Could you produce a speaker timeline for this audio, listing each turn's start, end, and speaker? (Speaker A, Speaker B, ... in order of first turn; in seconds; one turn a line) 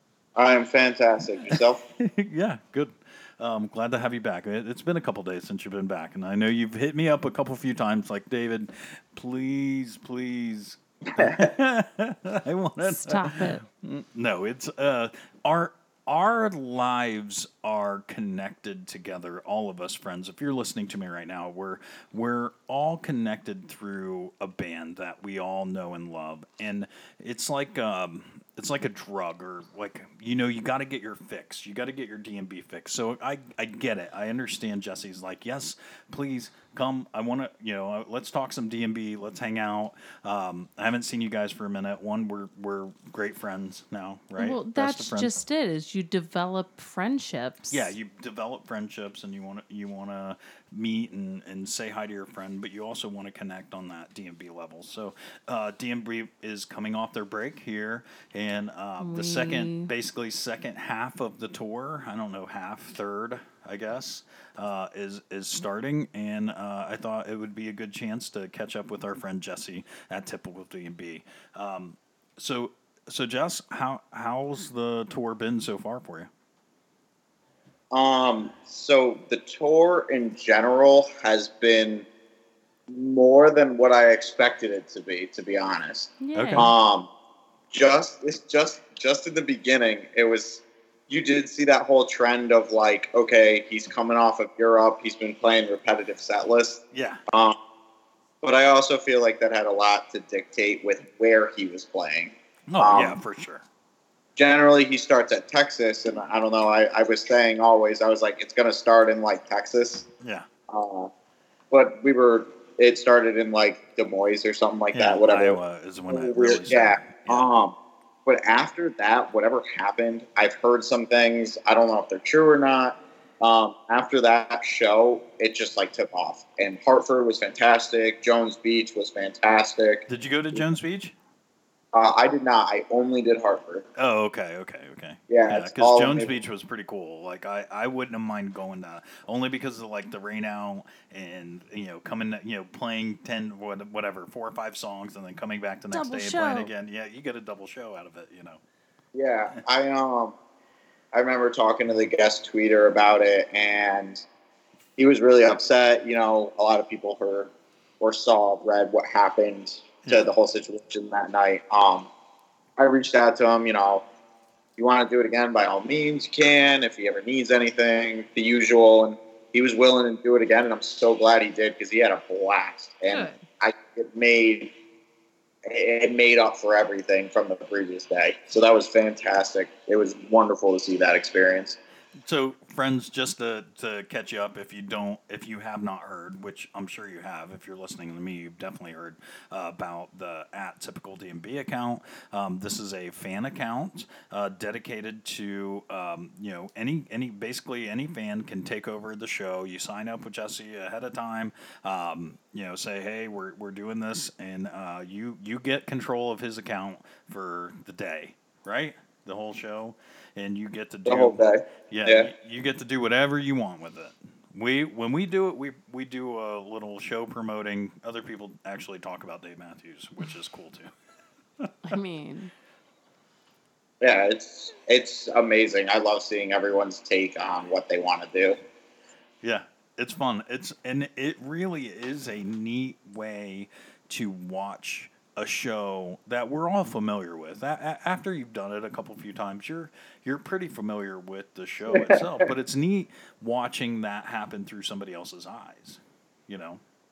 Speaker A: 0.4-1.8
Speaker B: 1.5-45.4
Speaker A: 11.2-11.5
Speaker C: 12.8-13.6
Speaker C: 44.4-47.9
Speaker B: 47.7-76.3
Speaker C: 59.0-59.9
Speaker A: 77.9-82.1
Speaker A: 82.9-87.1
Speaker C: 86.2-86.7
Speaker B: 86.3-86.7
Speaker A: 87.7-97.6
Speaker B: 96.9-97.2
Speaker A: 98.4-103.2
Speaker B: 102.7-103.7
Speaker A: 104.4-110.1
Speaker B: 110.2-110.5
Speaker A: 110.7-111.1
Speaker A: 111.7-130.1
Speaker B: 114.9-117.5
Speaker B: 130.1-131.2
Speaker A: 131.9-133.9
Speaker B: 134.0-148.6
Speaker A: 135.3-136.3
Speaker C: 145.9-146.7
Speaker A: 149.2-150.4
Speaker A: 151.1-154.2
Speaker A: 155.0-162.1
Speaker A: 162.8-164.1
Speaker A: 164.8-174.7
Speaker C: 173.1-173.4
Speaker A: 175.7-181.8
Speaker B: 182.2-220.9
Speaker A: 211.1-212.3
Speaker B: 221.6-222.0
Speaker C: 221.9-222.5
Speaker A: 224.0-228.6
Speaker B: 229.4-246.8
Speaker A: 241.9-242.5